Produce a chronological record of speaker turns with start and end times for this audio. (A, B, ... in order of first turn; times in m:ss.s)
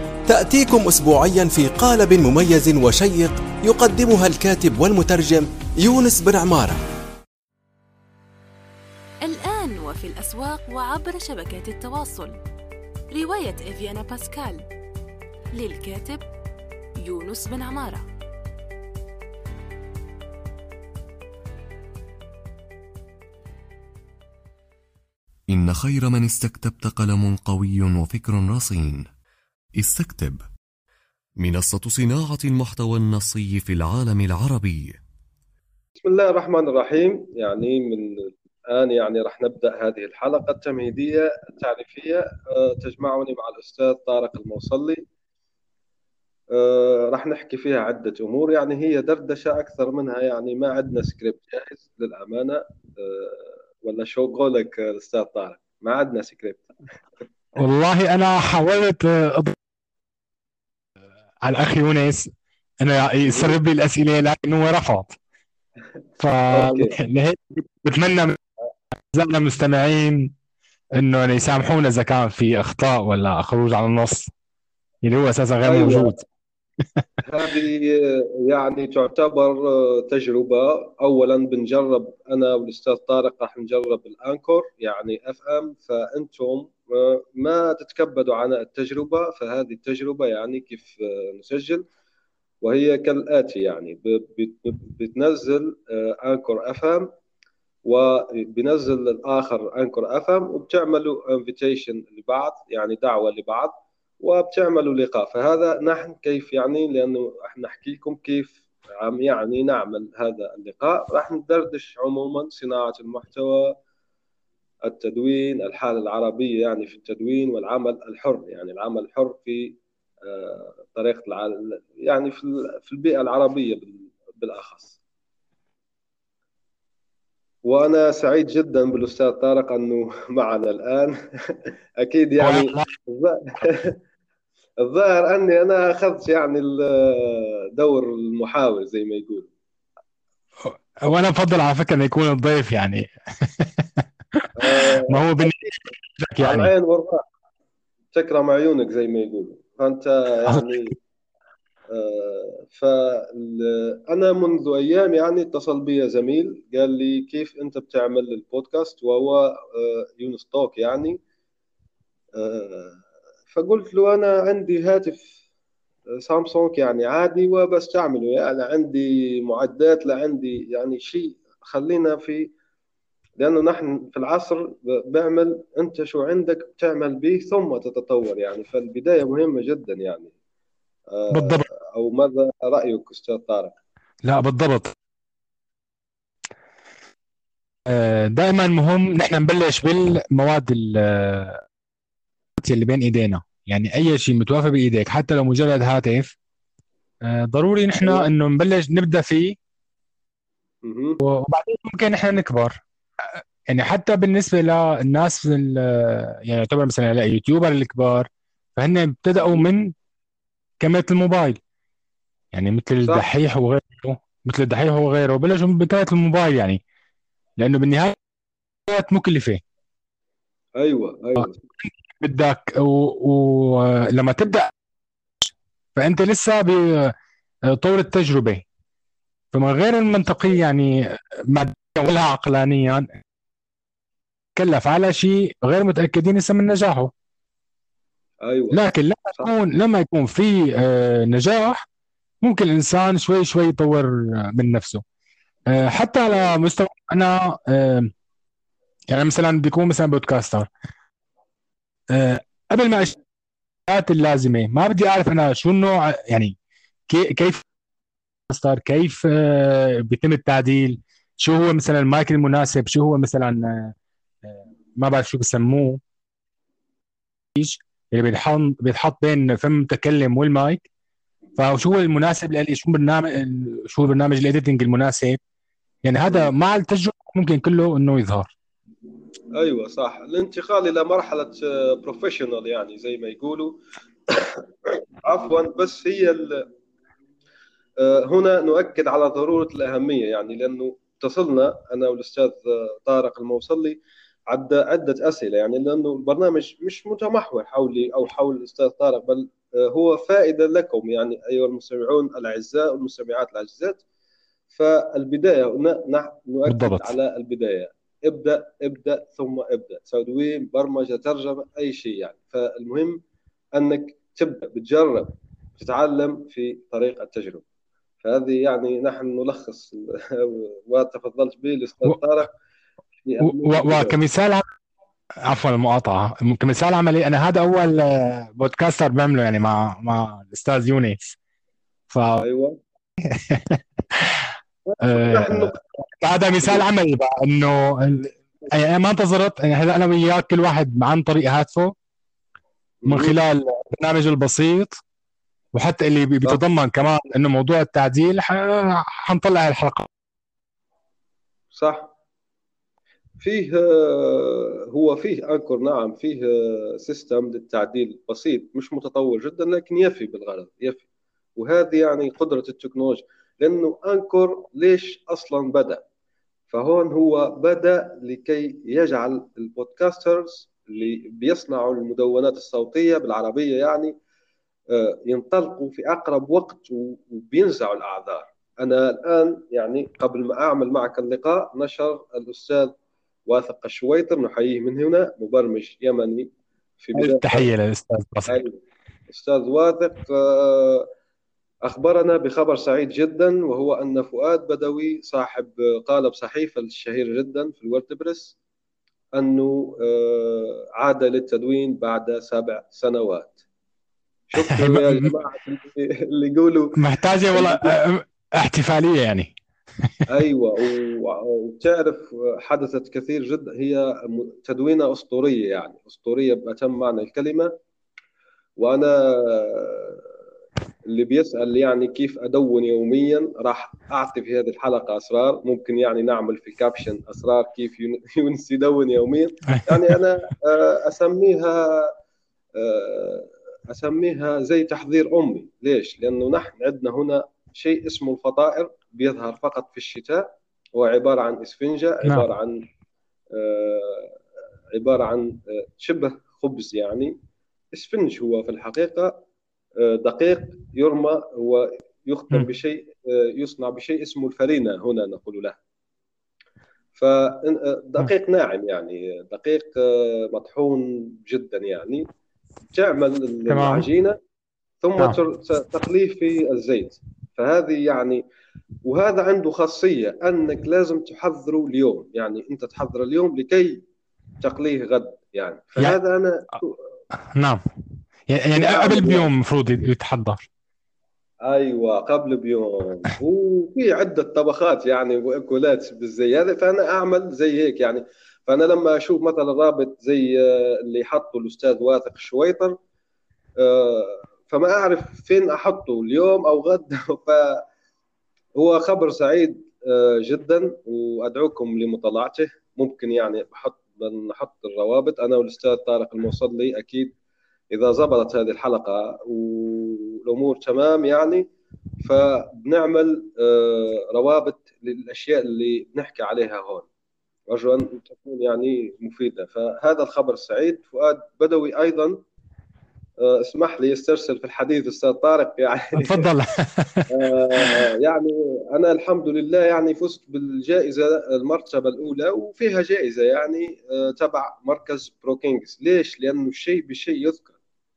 0:00.3-0:06.8 A
0:09.2-0:12.4 B
0:13.1-0:14.6 B
0:15.5-0:16.2 B
0:17.0-0:18.0 B
0:25.5-0:29.0 C
0:29.8-0:30.4 C
0:31.4-0:35.0 C
0:36.0-0:45.0 D
0:46.5-0:56.7 D
0:57.6-0:59.6 E
1:01.4-1:02.3 E
1:02.8-1:05.2 E
1:03.3-1:03.6 D
1:06.2-1:08.4 E
1:06.5-1:07.0 D
1:09.1-1:10.3 E
1:11.0-1:14.3 E
1:15.0-1:16.2 E
1:15.6-1:16.1 D
1:17.2-1:31.9 D
1:32.6-1:37.1 D
1:37.8-1:53.8 D
1:54.8-2:05.0 D
2:07.6-2:13.9 D
2:12.4-2:12.9 E
2:14.8-2:19.5 D
2:20.6-2:26.7 E
2:24.6-2:25.9 D
2:26.4-2:27.2 D
2:28.1-2:30.9 D
2:30.5-2:30.9 E
2:31.9-2:41.2 D
2:42.4-2:43.0 D
2:43.5-2:45.4 D
2:46.2-2:52.5 D
2:53.4-3:00.3 D
3:01.1-3:03.8 D
3:01.3-3:01.6 E
3:04.2-3:04.9 E
3:07.9-3:11.6 E
3:12.6-3:16.3 E
3:17.2-3:19.6 E
3:18.0-3:18.3 D
3:20.8-3:21.2 D
3:21.2-3:22.8 E
3:23.7-3:29.9 E
3:30.8-3:31.6 E
3:32.5-3:36.8 E
3:37.6-3:38.1 E
3:38.9-3:39.6 E
3:40.8-3:41.6 D
3:41.4-3:44.7 E
3:45.4-3:47.1 E
3:47.7-3:48.6 E
3:49.5-3:53.1 E
3:54.6-3:57.1 E
3:58.4-3:58.8 D
3:58.7-4:01.8 E
4:02.4-4:05.0 E
4:05.7-4:08.1 E
4:09.1-4:10.7 E
4:12.1-4:13.2 E
4:13.9-4:16.5 E
4:17.1-4:17.6 E
4:18.5-4:23.9 E
4:24.4-4:26.0 E
4:27.5-4:30.8 E
4:31.6-4:35.4 E
4:36.0-4:38.5 E
4:39.5-4:43.8 D
4:44.3-4:46.6 D
4:48.0-5:04.0 D
5:04.7-5:13.2 D
5:06.7-5:07.1 E
5:13.7-5:17.6 D
5:18.2-5:22.5 D
5:23.2-5:24.2 D
5:23.4-5:24.6 E
5:25.4-5:31.3 E
5:32.1-5:32.4 E
5:32.4-5:32.8 D
5:33.2-5:41.9 E
5:34.9-5:35.8 D
5:43.0-5:43.4 D
5:43.1-5:45.0 E
5:45.7-5:50.1 E
5:51.7-5:52.1 D
5:53.4-6:01.0 D
6:01.6-6:06.0 D
6:06.7-6:14.2 D
6:14.9-6:22.9 D
6:23.5-6:26.5 D
6:27.0-6:27.7 D
6:27.1-6:28.6 E
6:28.5-6:31.1 D
6:31.8-6:38.6 D
6:39.3-6:43.6 D
6:44.5-6:47.0 D
6:44.6-6:45.3 E
6:46.9-6:49.5 E
6:47.5-6:48.0 D
6:50.3-6:57.7 D
6:58.8-7:00.2 D
7:01.1-7:12.1 D
7:09.7-7:10.1 E
7:12.8-7:22.8 D
7:23.5-7:24.4 D
7:24.9-7:27.4 D
7:27.9-7:29.4 D
7:30.0-7:35.8 D
7:37.1-7:42.3 D
7:42.9-7:44.4 D
7:43.7-7:44.0 E
7:45.0-7:48.4 D
7:49.0-7:54.0 D
7:54.6-7:57.0 D
7:57.5-7:57.8 E
7:58.5-8:00.6 E
7:58.7-7:59.5 D
8:01.6-8:13.0 D
8:13.8-8:17.8 D
8:18.8-8:27.3 D
8:27.9-8:31.7 D
8:32.2-8:37.1 D
8:37.7-8:42.4 D
8:43.4-8:46.4 D
8:46.2-8:48.0 E
8:47.3-8:57.7 D